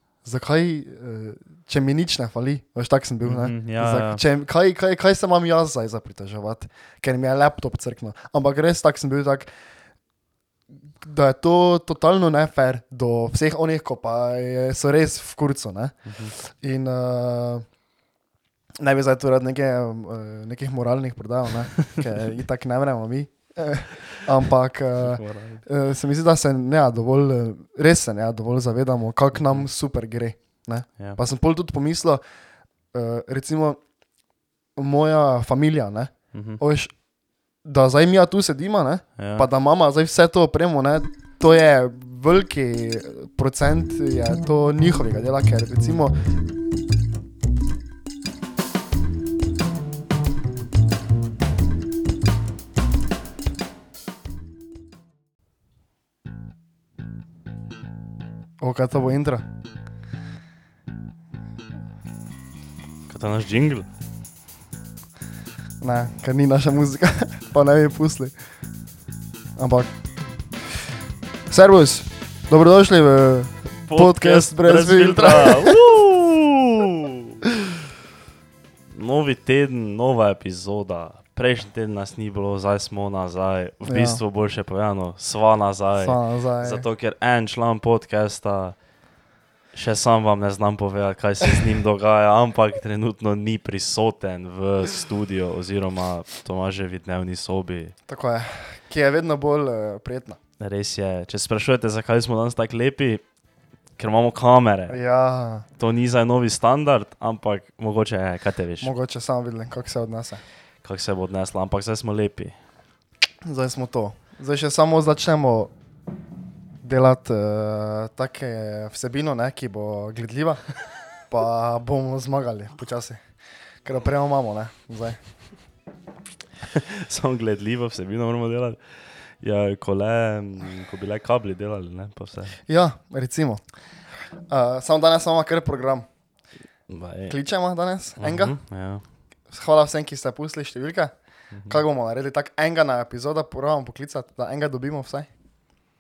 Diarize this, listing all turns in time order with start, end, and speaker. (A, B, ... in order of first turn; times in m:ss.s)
0:00.2-0:09.5 A
0:03.2-0:04.2 B
0:11.0-0:17.7 A
0:16.0-0:16.3 B
0:18.8-0:32.2 A
0:25.0-0:25.6 B
0:29.3-0:29.7 B
0:32.9-0:33.8 A
0:34.8-0:36.9 A
0:36.3-0:36.6 B
0:37.6-0:46.2 A
0:39.2-0:39.5 B
0:58.6-0:59.4 A
1:03.1-1:03.9 B
1:05.8-1:08.3 A
1:09.6-1:09.9 A
1:11.5-1:15.8 A
1:13.8-1:17.4 B
1:18.9-1:28.8 B
1:23.8-1:24.2 A
1:26.0-1:26.9 A
1:29.7-1:37.9 B
1:38.1-1:40.4 A
1:40.6-1:43.2 B
1:44.0-1:45.0 B
1:44.9-1:45.6 A
1:45.8-1:48.9 B
1:48.8-1:50.4 A
1:50.8-1:52.5 B
1:53.4-1:55.7 A
1:56.8-2:03.2 A
2:03.8-2:05.2 A
2:06.7-2:12.6 B
2:12.7-2:13.6 A
2:14.5-2:16.0 A
2:16.9-2:17.4 B
2:17.3-2:18.6 A
2:18.2-2:19.0 B
2:19.5-2:21.1 A
2:21.5-2:21.8 B
2:21.6-2:25.3 A